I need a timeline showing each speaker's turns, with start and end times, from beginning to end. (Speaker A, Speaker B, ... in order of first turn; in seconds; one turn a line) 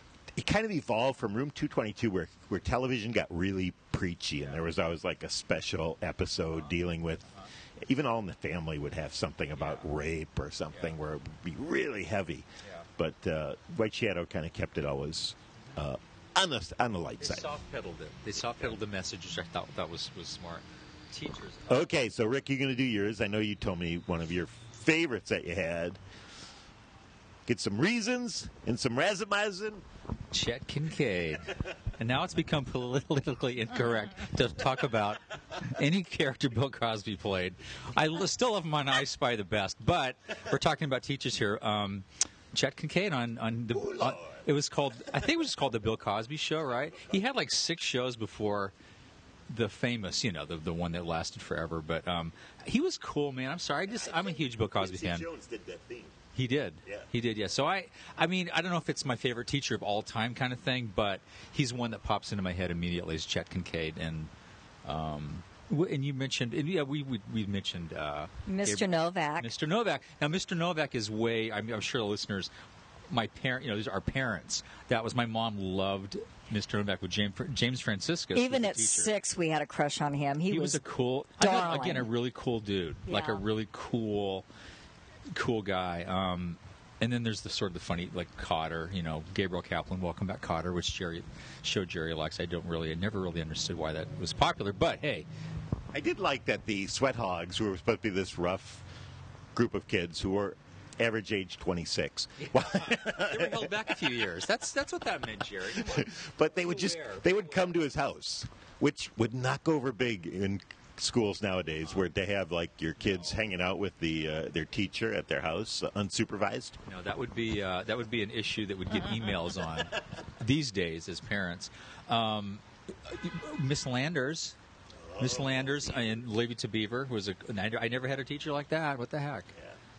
Speaker A: 0.4-7.3
Speaker A: 7.8-12.5
Speaker B: 9.6-9.9
Speaker A: 13.0-17.5
Speaker B: 17.2-21.9
Speaker A: 21.7-26.0
Speaker A: 27.5-29.8
Speaker B: 30.3-48.7
Speaker A: 43.8-44.2
Speaker B: 49.5-55.3
Speaker A: 53.9-56.2
Speaker B: 56.3-64.3
Speaker B: 64.8-72.5
Speaker C: 68.5-69.5
Speaker B: 73.1-79.1
Speaker C: 78.3-80.8
Speaker B: 80.5-84.5
Speaker C: 81.4-82.1
Speaker C: 83.1-83.4
Speaker B: 85.3-95.3
Speaker A: 95.9-98.9
Speaker A: 99.5-104.0
Speaker B: 102.4-107.8
Speaker A: 105.8-116.8
Speaker B: 113.0-113.4
Speaker B: 116.9-124.6
Speaker A: 125.0-126.2
Speaker B: 125.2-129.5